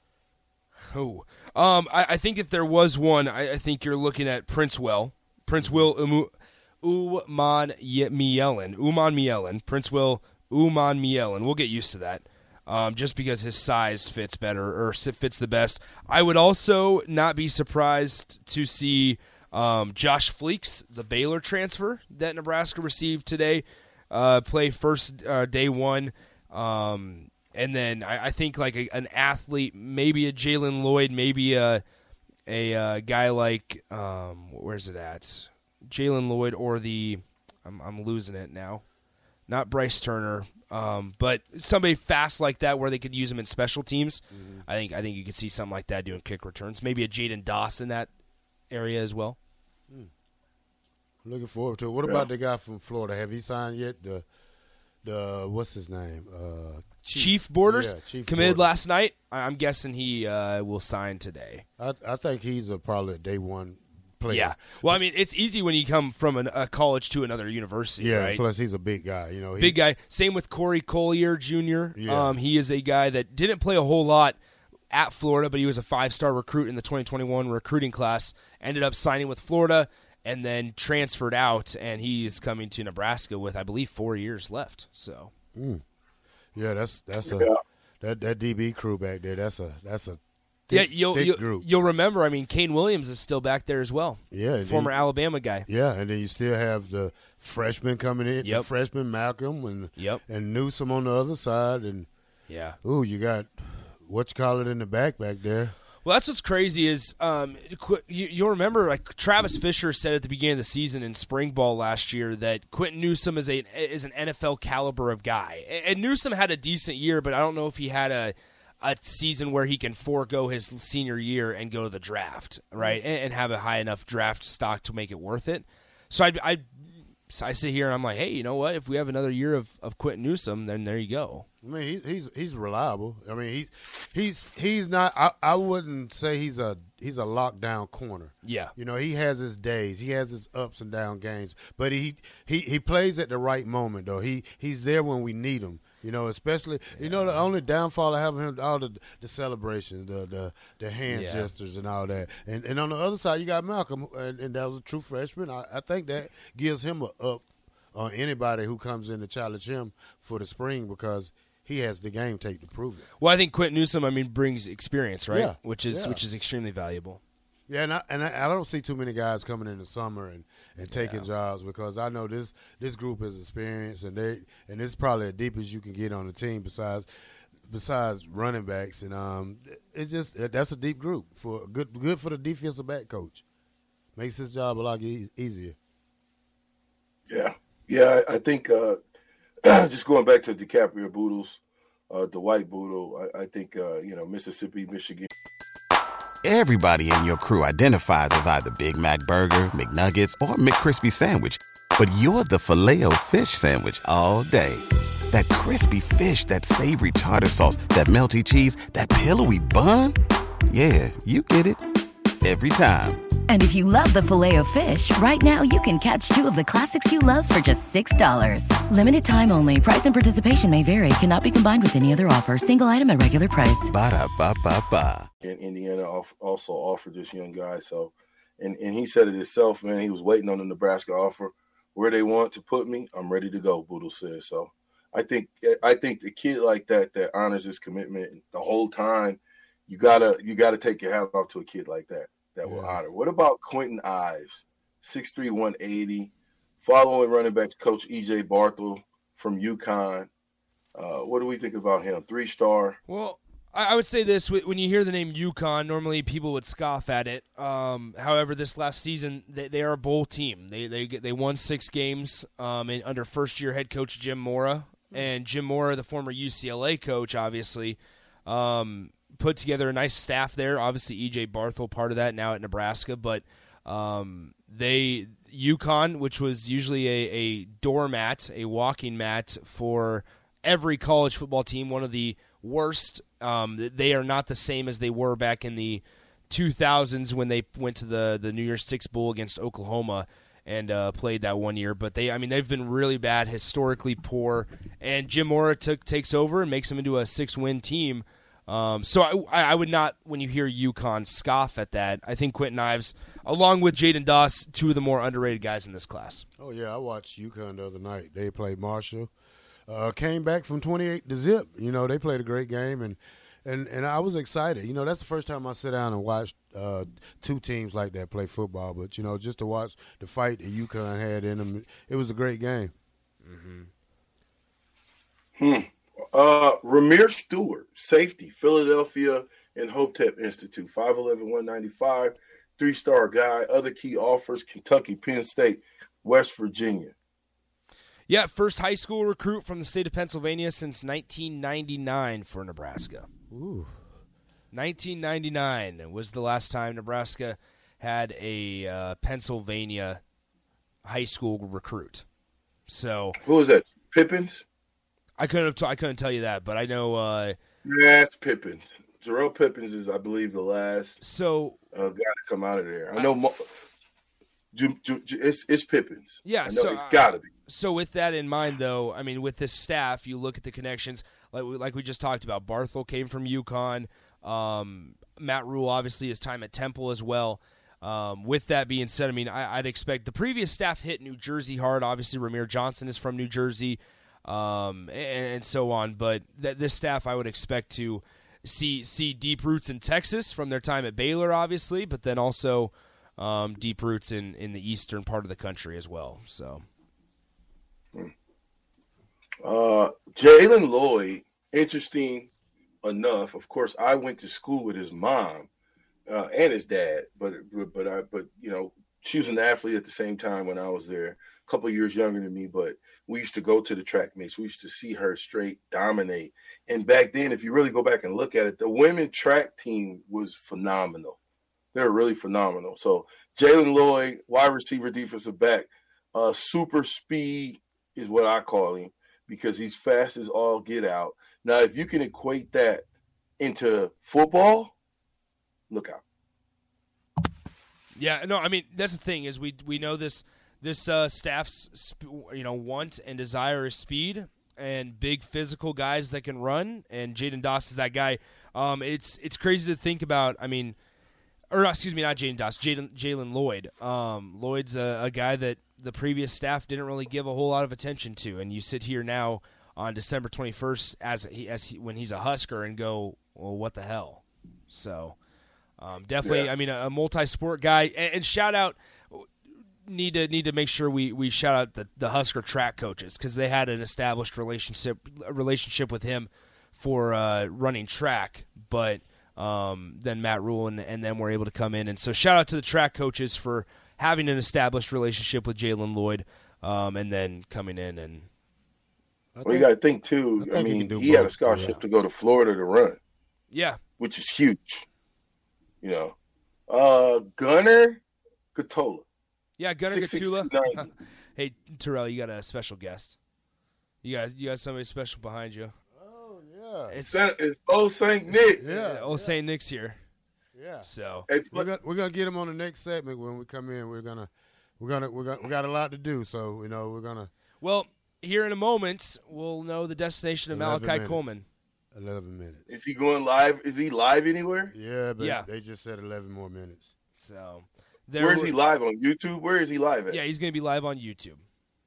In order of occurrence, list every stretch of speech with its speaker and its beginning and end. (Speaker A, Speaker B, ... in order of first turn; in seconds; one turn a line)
Speaker A: 0.9-6.3
Speaker B: 5.6-5.9
Speaker A: 6.8-31.8
Speaker A: 32.5-38.8
Speaker A: 39.5-48.1
Speaker B: 44.3-44.6
Speaker A: 48.7-49.4
Speaker B: 51.2-54.2
Speaker B: 55.0-58.7
Speaker A: 57.1-61.6
Speaker B: 61.8-65.0
Speaker A: 64.3-68.4
Speaker B: 68.0-69.8
Speaker A: 69.6-74.4
Speaker B: 72.0-72.4
Speaker A: 74.9-85.3
Speaker B: 85.5-85.8
Speaker B: 86.5-87.5
Speaker C: 87.3-87.6
Speaker B: 88.0-91.7
Speaker A: 90.7-95.7
Speaker B: 94.3-95.0
Speaker B: 95.7-102.1
Speaker A: 98.4-98.7
Speaker A: 102.5-102.8
Speaker B: 102.8-105.8
Speaker A: 106.0-126.7
Speaker A: 127.3-131.5
Speaker B: 131.6-163.1
Speaker A: 138.4-138.7
Speaker A: 146.9-147.5
Speaker A: 151.1-151.5
Speaker A: 163.2-167.2
Speaker B: 165.3-166.2
Speaker B: 167.7-177.1
Speaker A: 170.9-171.3
Speaker B: 177.7-183.4
Speaker B: 184.2-185.8
Speaker C: 187.3-189.0
Speaker C: 189.6-195.3
Speaker D: 196.4-210.2
Speaker D: 210.7-211.8
Speaker D: 212.4-213.2
Speaker E: 213.5-223.9
Speaker D: 223.9-225.2
Speaker C: 225.4-250.3
Speaker B: 242.6-243.0
Speaker C: 250.9-253.0
Speaker A: 253.1-306.4
Speaker B: 306.6-309.3
Speaker B: 309.9-322.9
Speaker A: 323.4-323.9
Speaker C: 325.6-337.1
Speaker A: 338.3-343.3
Speaker B: 343.5-343.9
Speaker A: 344.7-350.2
Speaker A: 351.0-352.2
Speaker A: 352.9-353.4
Speaker C: 353.4-354.6
Speaker A: 355.4-357.6
Speaker C: 357.8-361.2
Speaker A: 361.2-361.8
Speaker C: 361.9-363.6
Speaker C: 364.7-367.5
Speaker A: 366.4-396.8
Speaker C: 399.6-402.5
Speaker C: 403.0-405.7
Speaker C: 406.3-421.4
Speaker C: 421.9-433.0
Speaker C: 433.6-434.9
Speaker C: 435.9-436.2
Speaker A: 438.1-451.0
Speaker A: 451.7-465.4
Speaker A: 466.0-469.5
Speaker C: 466.4-466.7
Speaker A: 470.1-488.5
Speaker B: 489.6-489.9
Speaker C: 489.6-493.2
Speaker B: 490.6-492.0
Speaker A: 493.7-494.0
Speaker C: 494.2-495.1
Speaker C: 496.0-496.4
Speaker C: 496.9-498.2
Speaker C: 498.8-499.3
Speaker A: 499.8-503.4
Speaker C: 500.1-501.1
Speaker A: 504.2-505.9
Speaker B: 506.1-507.2
Speaker A: 507.1-507.4
Speaker C: 507.2-508.8
Speaker A: 508.5-510.2
Speaker B: 508.8-509.6
Speaker B: 510.7-511.1
Speaker A: 511.0-511.5
Speaker C: 511.5-511.9
Speaker B: 511.7-517.5
Speaker A: 517.8-521.6
Speaker B: 520.7-521.6
Speaker B: 522.1-522.9
Speaker C: 522.9-524.9
Speaker B: 524.9-527.1
Speaker A: 525.4-525.7
Speaker A: 527.4-528.8
Speaker C: 528.4-530.4
Speaker A: 530.3-531.6